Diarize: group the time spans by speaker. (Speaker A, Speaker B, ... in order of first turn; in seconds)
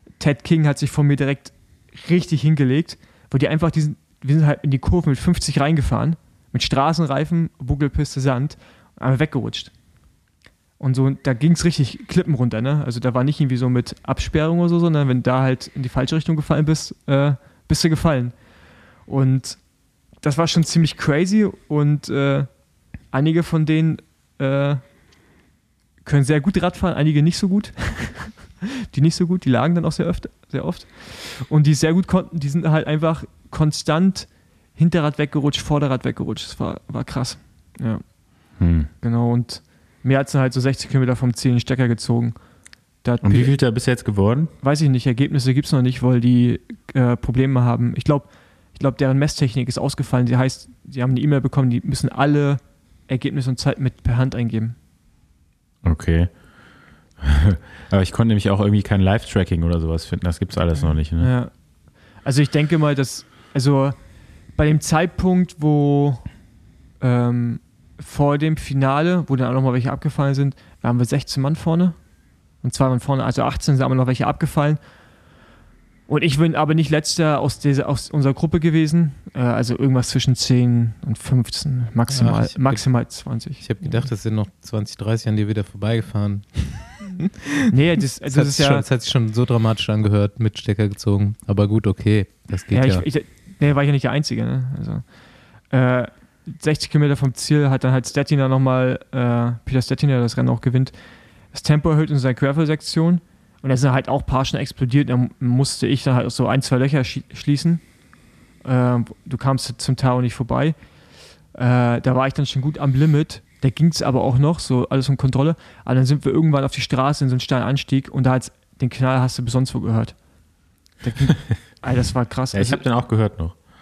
Speaker A: 0.1-9.8, 10.8-24.8, 26.0-43.7, 44.6-54.8, 61.0-66.4, 67.0-74.8, 76.1-84.0, 87.7-88.9, 92.7-108.0, 108.6-123.2
Speaker B: 38.6-38.9, 43.2-44.5, 55.8-56.4, 57.2-61.3, 122.5-123.7
Speaker C: 82.1-87.2, 88.2-93.0